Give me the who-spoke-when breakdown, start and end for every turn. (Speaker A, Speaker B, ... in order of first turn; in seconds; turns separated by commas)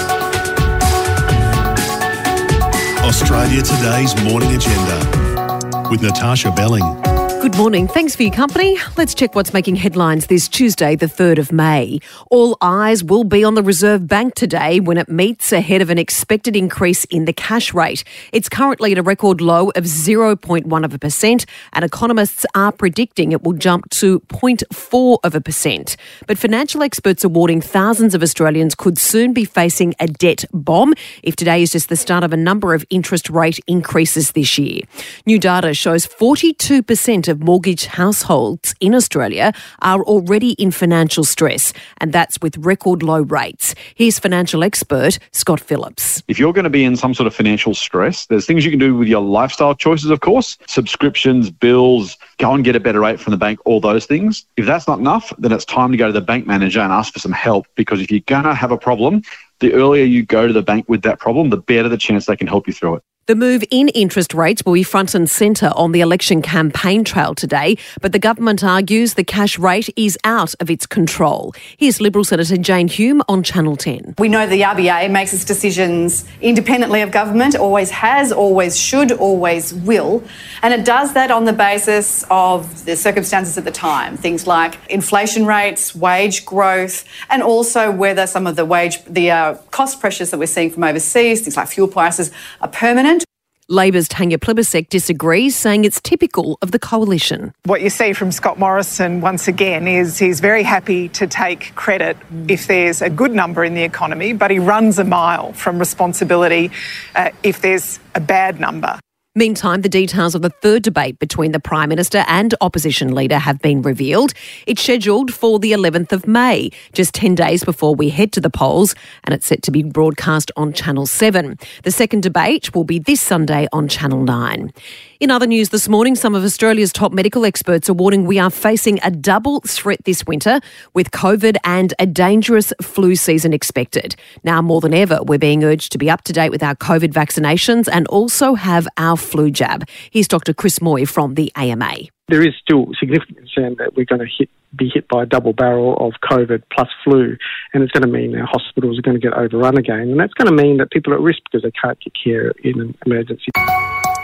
Speaker A: 3.0-5.1, Speaker A: 5.9-7.0, Speaker B: 7.4-46.2, Speaker C: 46.3-63.0, Speaker B: 63.3-74.1, Speaker D: 74.2-93.2, Speaker B: 93.7-97.5, Speaker E: 97.6-109.0, Speaker B: 109.3-142.1, Speaker F: 142.3-153.5